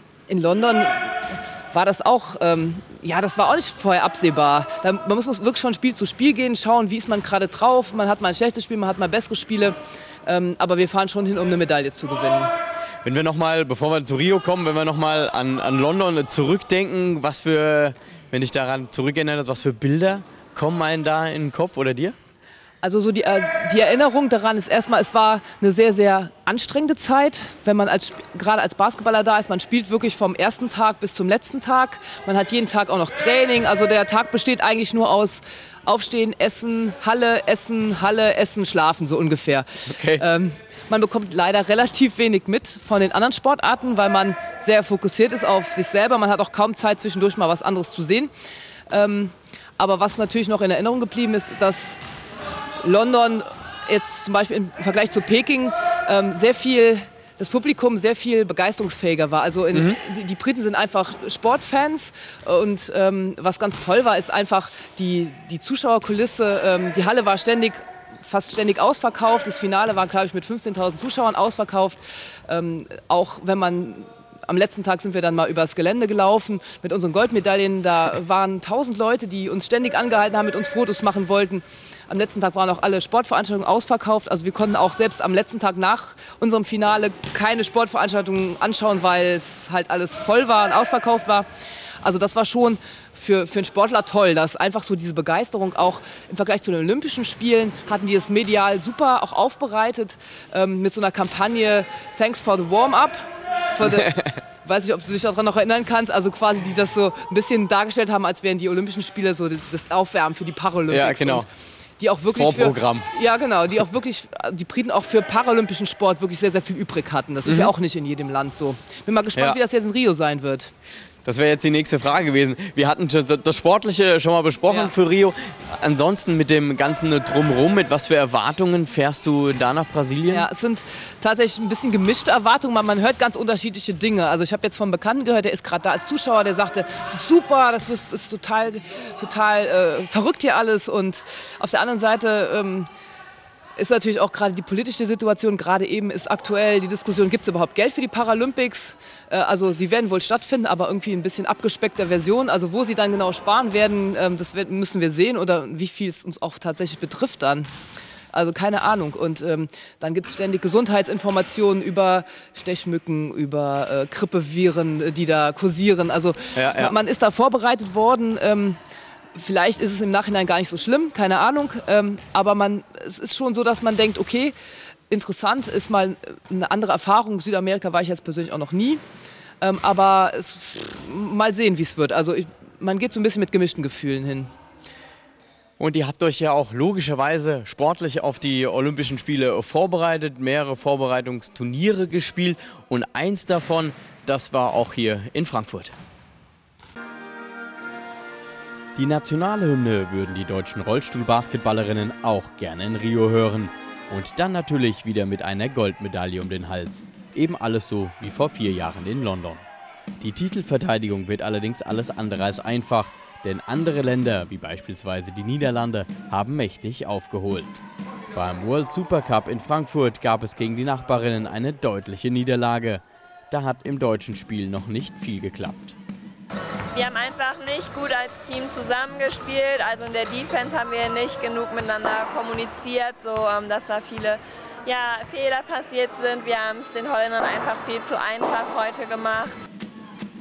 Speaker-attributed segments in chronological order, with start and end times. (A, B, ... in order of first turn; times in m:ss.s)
0:00.3-0:12.5 A
0:13.0-0:22.2 B
0:22.8-0:48.3 A
0:39.9-0:40.2 B
0:48.9-0:52.0 A
0:52.8-1:31.5 A
0:59.7-1:00.0 B
1:32.0-1:51.5 A
1:43.8-1:44.4 B
1:50.9-1:51.5 B
1:52.0-2:00.7 A
1:52.2-1:53.1 B
1:57.4-1:57.7 B
2:01.2-2:10.5 B
2:10.3-2:22.9 A
2:23.8-2:37.7 A
2:38.3-2:48.8 A
2:46.6-2:47.0 B
2:49.4-2:54.6 A
2:55.1-2:59.0 A
2:59.6-3:04.5 A
3:05.8-3:16.0 B
3:19.0-3:29.6 B
3:30.2-3:37.8 B
3:38.3-3:46.0 B
3:46.9-3:59.7 C